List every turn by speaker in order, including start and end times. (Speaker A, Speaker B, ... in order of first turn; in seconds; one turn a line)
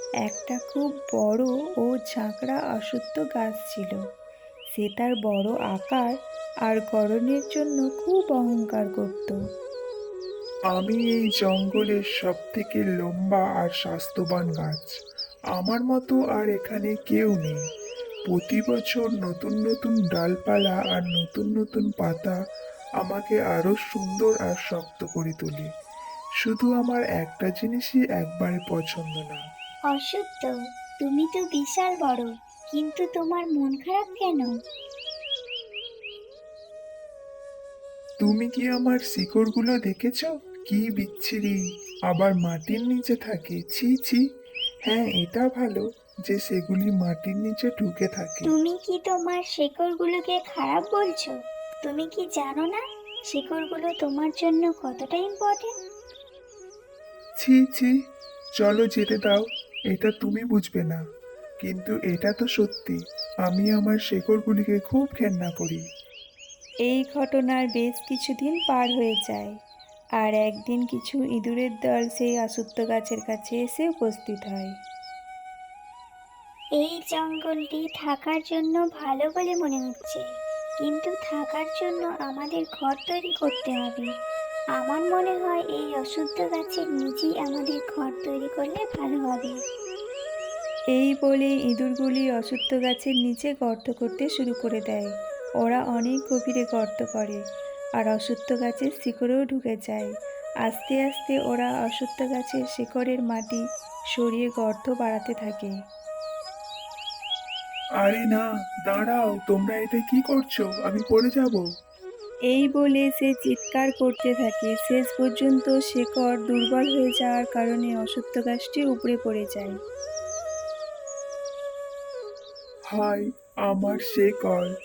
Speaker A: 0.2-4.0
Speaker A: 4.8-6.1
Speaker A: 6.7-9.4
Speaker B: 10.7-14.9
Speaker B: 15.5-17.6
Speaker B: 18.3-22.4
Speaker B: 23.0-25.7
Speaker B: 26.4-29.4
Speaker C: 29.9-34.5
Speaker B: 38.2-41.6
Speaker B: 42.1-44.2
Speaker B: 44.9-48.5
Speaker C: 48.5-55.7
Speaker B: 57.4-57.9
Speaker B: 58.6-61.0
Speaker B: 61.6-65.8
Speaker A: 66.9-69.5
Speaker A: 70.2-74.7
Speaker C: 76.8-80.2
Speaker C: 80.8-84.1
Speaker C: 84.8-89.6
Speaker A: 90.9-97.4
Speaker A: 98.0-100.1
Speaker A: 100.7-103.6
Speaker A: 104.1-105.7
Speaker B: 108.0-111.6
Speaker A: 112.5-119.8
Speaker B: 122.9-124.7